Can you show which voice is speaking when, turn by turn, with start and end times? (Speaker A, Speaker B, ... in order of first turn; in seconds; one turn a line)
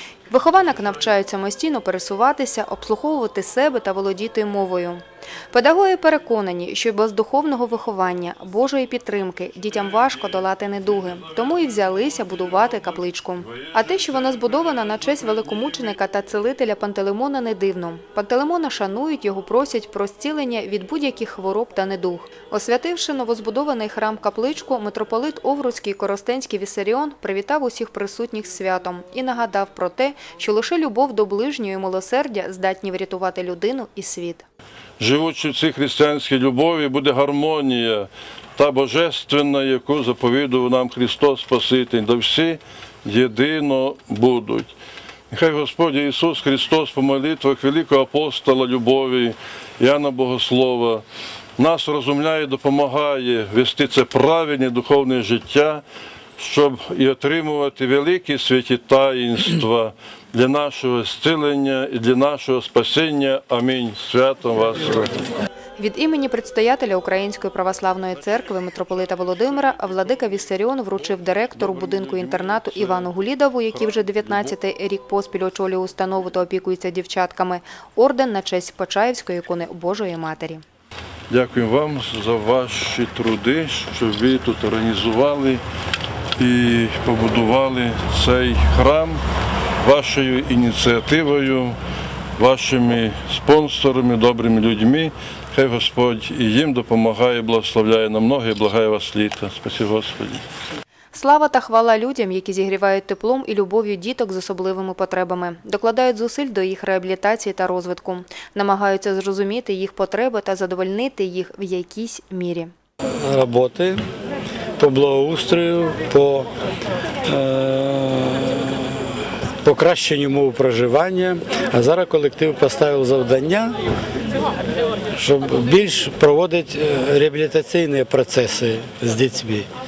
Speaker A: 0.3-34.5
Speaker B: 35.0-44.7
Speaker B: 45.3-51.0
Speaker B: 51.6-55.8
Speaker B: 56.4-65.2
Speaker A: 65.8-80.6
Speaker B: 71.5-73.1
Speaker B: 73.9-74.5
Speaker B: 81.3-85.6
Speaker B: 86.4-89.2
Speaker B: 89.8-91.8
Speaker B: 92.4-100.4
Speaker A: 101.1-112.7
Speaker C: 113.2-114.0
Speaker C: 114.8-116.5
Speaker C: 117.3-119.1
Speaker C: 119.6-123.8
Speaker C: 125.1-129.7